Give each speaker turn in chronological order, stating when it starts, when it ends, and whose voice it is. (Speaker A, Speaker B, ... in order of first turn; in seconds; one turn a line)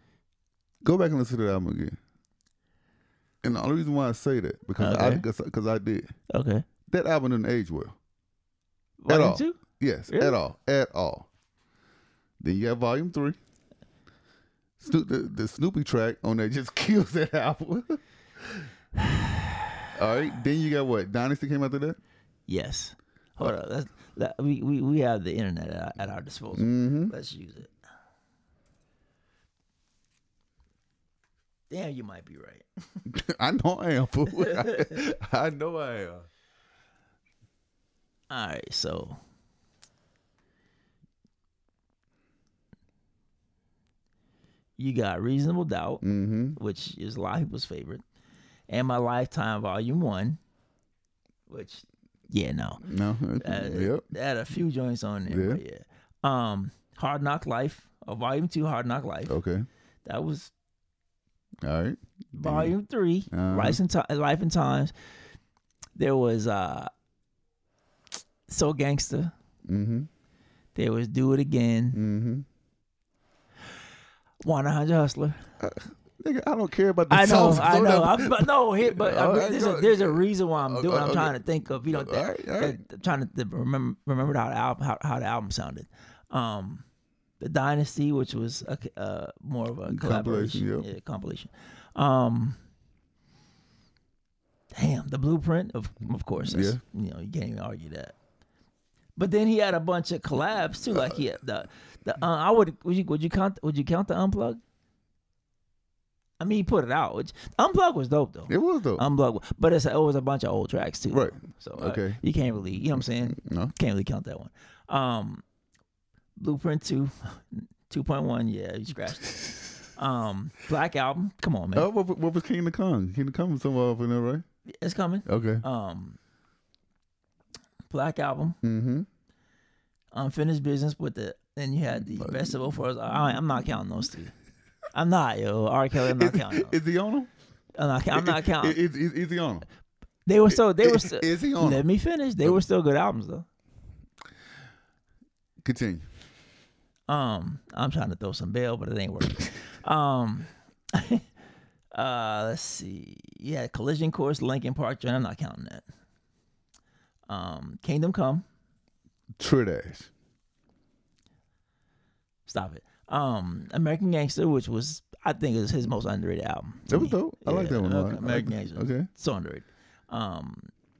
Speaker A: 0.8-2.0
Speaker A: 3.4-6.1
Speaker B: 4.8-5.2
Speaker B: 6.3-6.7
Speaker A: 6.9-8.0
Speaker B: 9.0-10.4
Speaker A: 9.1-11.3
Speaker A: 12.4-13.4
Speaker A: 14.8-18.6
Speaker B: 19.0-19.7
Speaker A: 19.9-22.0
Speaker B: 22.5-27.7
Speaker A: 26.5-27.1
Speaker B: 31.7-32.6
Speaker A: 33.1-36.3
Speaker B: 34.4-35.0
Speaker B: 38.3-39.2
Speaker B: 44.8-46.0
Speaker A: 46.0-46.6
Speaker B: 46.5-48.0
Speaker B: 48.7-50.4
Speaker B: 51.5-52.8
Speaker A: 52.8-54.0
Speaker B: 53.4-59.4
Speaker A: 55.3-55.6
Speaker A: 59.3-59.7
Speaker B: 60.0-60.5
Speaker A: 61.6-62.8
Speaker B: 62.4-64.9
Speaker A: 63.3-63.8
Speaker B: 66.0-66.9
Speaker B: 68.5-69.3
Speaker A: 69.6-70.1
Speaker B: 70.7-72.0
Speaker A: 71.9-72.5
Speaker B: 74.4-75.5
Speaker A: 75.6-82.8
Speaker B: 77.1-86.8
Speaker B: 87.4-92.6
Speaker A: 89.9-90.9
Speaker B: 94.7-98.1
Speaker A: 96.4-96.8
Speaker B: 99.2-104.6
Speaker A: 100.9-101.2
Speaker B: 106.4-115.4
Speaker A: 108.5-109.0
Speaker A: 111.1-112.2
Speaker A: 113.2-113.7
Speaker B: 116.4-121.9
Speaker A: 121.7-124.4
Speaker B: 124.7-126.2
Speaker A: 125.2-125.6
Speaker B: 127.9-128.6
Speaker A: 128.6-129.1
Speaker B: 130.1-134.3
Speaker A: 132.0-132.7
Speaker B: 134.9-136.8
Speaker A: 136.0-137.3
Speaker B: 137.8-138.8
Speaker A: 138.1-139.6
Speaker B: 140.2-143.4
Speaker A: 140.5-141.9
Speaker A: 145.6-146.1
Speaker B: 147.1-151.2
Speaker B: 151.9-155.8
Speaker B: 157.3-158.4
Speaker A: 159.4-160.1
Speaker B: 162.5-170.7
Speaker A: 166.9-169.1